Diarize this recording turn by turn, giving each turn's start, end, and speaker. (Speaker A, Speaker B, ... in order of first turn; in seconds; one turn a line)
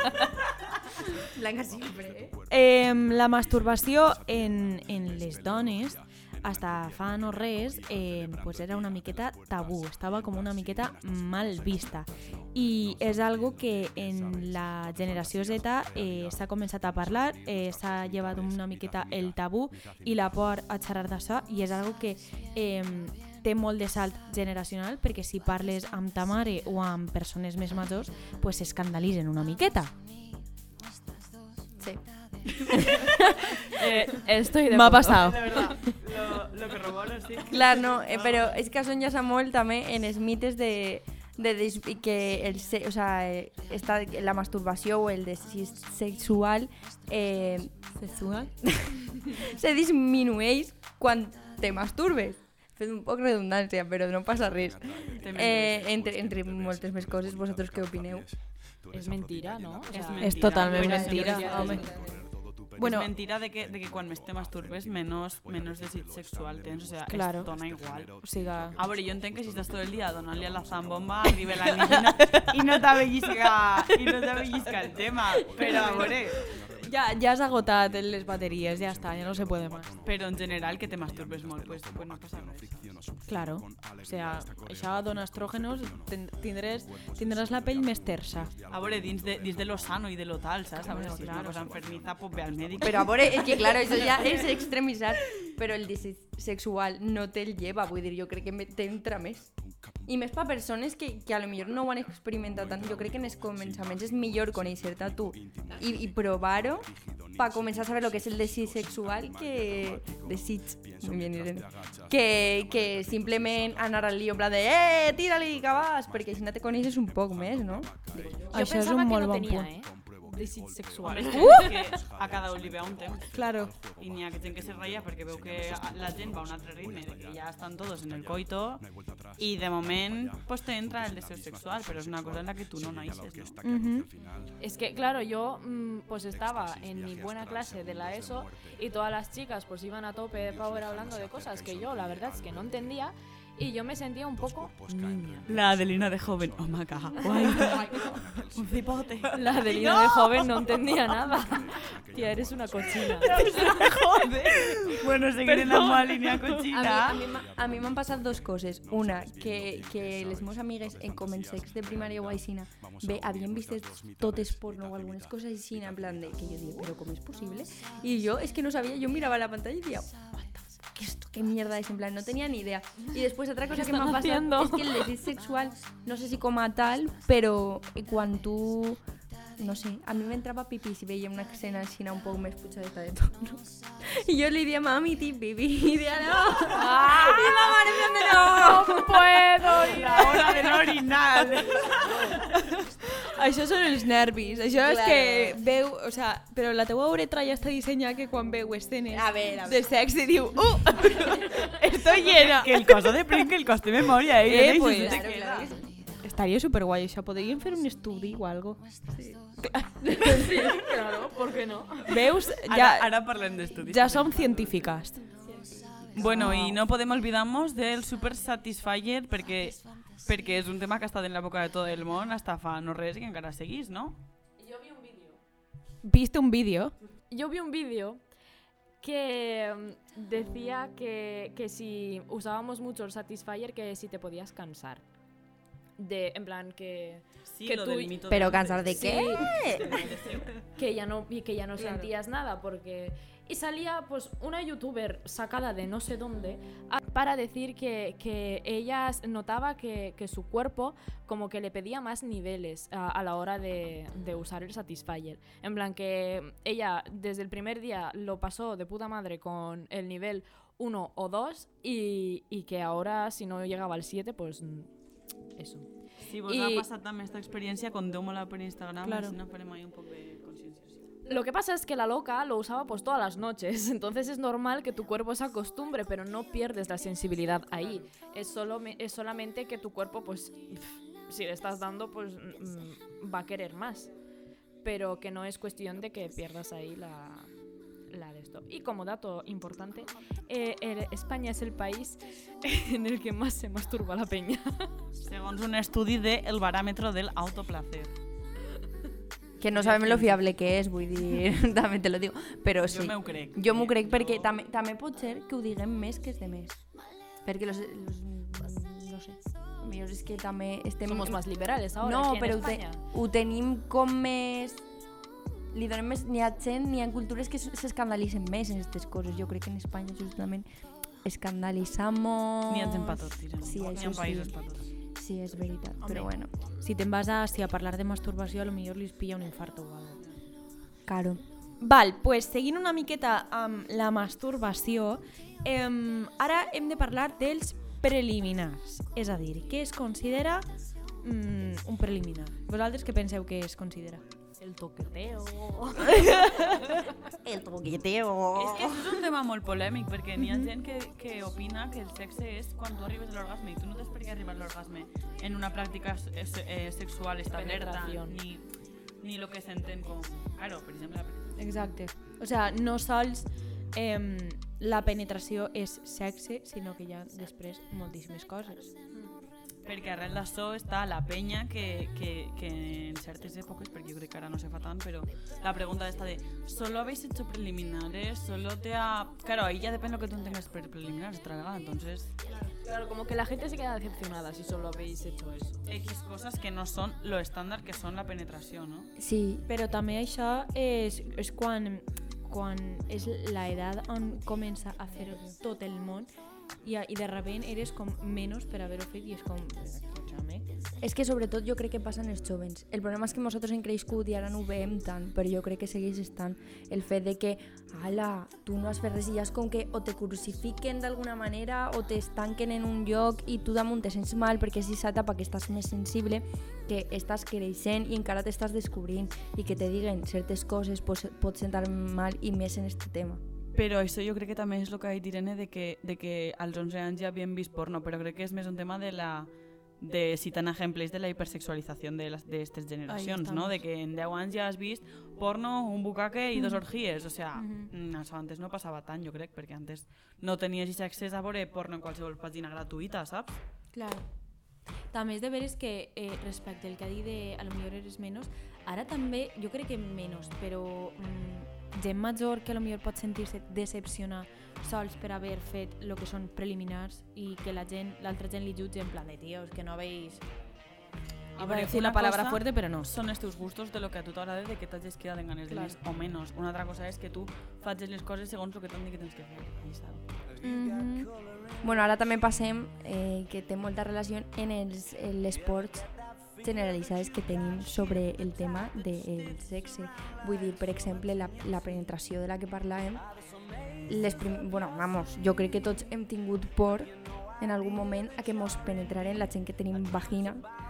Speaker A: 1.3-2.3
Speaker B: 2.5-29.9
Speaker A: 31.8-32.0
Speaker C: 33.6-35.8
Speaker B: 34.7-35.9
Speaker D: 35.2-38.6
Speaker A: 37.5-58.3
Speaker D: 55.2-55.9
Speaker C: 58.9-62.0
Speaker D: 59.9-61.9
Speaker B: 60.2-61.9
Speaker A: 60.7-62.2
Speaker B: 62.8-63.1
Speaker D: 62.8-68.2
Speaker B: 67.1-67.5
Speaker B: 68.2-68.8
Speaker D: 68.8-76.4
Speaker B: 72.1-72.5
Speaker B: 75.3-79.9
Speaker D: 80.0-83.0
Speaker B: 83.2-88.5
Speaker D: 88.7-94.2
Speaker B: 90.8-91.8
Speaker A: 92.8-99.5
Speaker A: 100.1-118.5
Speaker C: 118.5-122.0
Speaker B: 118.5-119.7
Speaker D: 121.0-128.9
Speaker B: 121.3-121.8
Speaker B: 123.3-123.8
Speaker D: 129.4-133.6
Speaker B: 133.6-134.1
Speaker C: 134.6-145.5
Speaker D: 145.4-150.6
Speaker C: 147.2-148.2
Speaker C: 149.3-154.6
Speaker D: 153.1-157.3
Speaker C: 155.4-157.4
Speaker A: 156.7-179.0
Speaker C: 173.7-175.1
Speaker A: 179.6-190.7
Speaker C: 186.7-190.7
Speaker D: 189.8-192.5
Speaker B: 193.2-202.9
Speaker A: 194.8-195.6
Speaker A: 199.1-199.9
Speaker D: 202.2-205.8
Speaker B: 204.4-205.2
Speaker A: 204.8-205.9
Speaker B: 206.2-208.8
Speaker A: 209.1-209.4
Speaker B: 209.6-210.7
Speaker C: 210.0-212.3
Speaker B: 212.1-213.1
Speaker D: 212.7-214.6
Speaker B: 213.8-215.2
Speaker C: 215.5-215.8
Speaker D: 216.1-224.2
Speaker B: 216.2-216.8
Speaker C: 224.6-225.4
Speaker B: 226.0-226.9
Speaker C: 227.3-228.2
Speaker C: 229.0-235.0
Speaker C: 236.0-238.2
Speaker D: 237.5-240.7
Speaker A: 238.3-240.1
Speaker B: 239.0-239.4
Speaker C: 239.1-239.4
Speaker C: 240.8-264.9
Speaker B: 241.8-242.1
Speaker C: 265.6-265.9
Speaker D: 266.2-271.1
Speaker C: 266.4-266.9
Speaker B: 269.0-269.4
Speaker C: 271.3-284.1
Speaker C: 284.8-287.5
Speaker C: 288.1-294.9
Speaker D: 295.2-298.1
Speaker A: 299.6-306.8
Speaker D: 299.7-300.4
Speaker D: 302.9-304.5
Speaker A: 307.4-311.4
Speaker C: 311.1-313.0
Speaker A: 312.0-314.9
Speaker A: 315.7-320.7
Speaker A: 321.2-324.6
Speaker D: 322.7-324.9
Speaker A: 325.1-326.5
Speaker B: 326.0-330.2
Speaker A: 331.1-331.4
Speaker B: 331.8-340.7
Speaker B: 341.2-344.2
Speaker C: 344.6-347.1
Speaker A: 347.4-349.0
Speaker D: 348.5-358.6
Speaker B: 350.4-350.7
Speaker C: 357.5-358.4
Speaker D: 359.2-361.6
Speaker B: 361.6-368.9
Speaker D: 369.9-382.3
Speaker C: 382.6-385.8
Speaker D: 385.9-389.1
Speaker A: 389.2-389.6
Speaker B: 389.7-396.3
Speaker B: 396.8-400.7
Speaker A: 401.0-423.4
Speaker D: 423.7-443.6
Speaker B: 433.1-433.8
Speaker B: 436.6-436.8
Speaker B: 437.6-437.9
Speaker B: 443.9-444.2
Speaker B: 445.1-460.4
Speaker D: 461.6-470.2
Speaker B: 461.6-463.1
Speaker B: 465.7-466.0
Speaker B: 470.6-471.3
Speaker A: 471.8-476.1
Speaker A: 476.6-483.2
Speaker A: 484.1-490.6